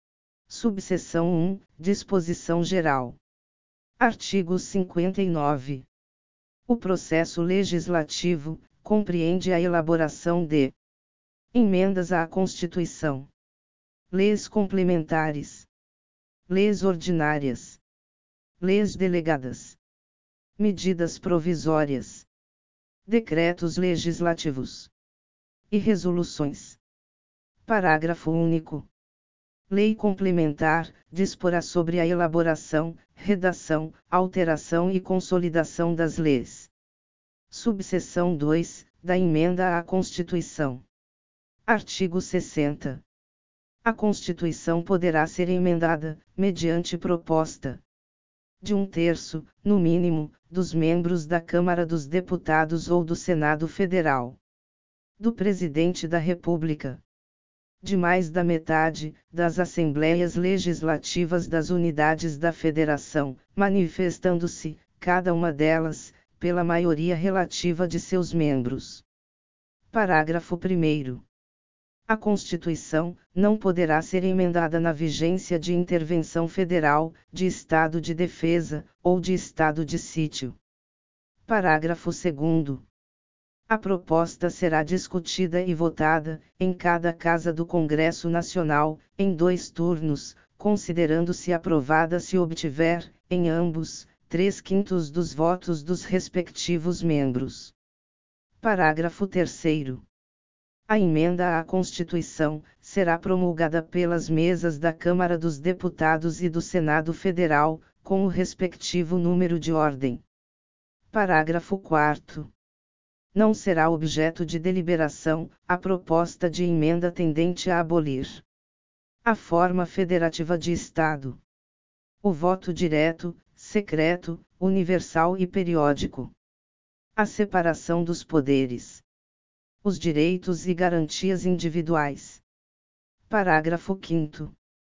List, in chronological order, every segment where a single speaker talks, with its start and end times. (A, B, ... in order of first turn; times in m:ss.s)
0:00.5-0:03.2 A
0:04.0-0:05.9 A
0:06.7-0:10.7 A
0:11.5-0:13.3 A
0:14.1-0:15.7 A
0:16.5-0:17.8 A
0:18.6-0:19.8 A
0:20.6-0:22.3 A
0:23.1-0:24.9 A
0:25.7-0:26.8 A
0:27.6-0:28.9 A
0:29.7-0:36.7 A
0:37.5-0:40.8 A
0:41.6-0:43.0 A
0:43.8-0:47.8 A
0:48.6-0:54.4 A
0:55.2-0:57.0 A
0:57.8-1:09.0 A
1:09.9-1:11.2 A
1:12.1-1:20.6 A
1:21.4-1:22.8 A
1:23.7-1:37.7 A
1:38.6-1:40.0 A
1:40.9-1:50.2 A
1:51.1-1:52.5 A
1:53.3-1:58.4 A
1:59.2-2:01.4 A
2:02.2-2:06.3 A
2:07.2-2:09.0 A
2:09.8-2:12.4 A
2:13.3-2:14.5 A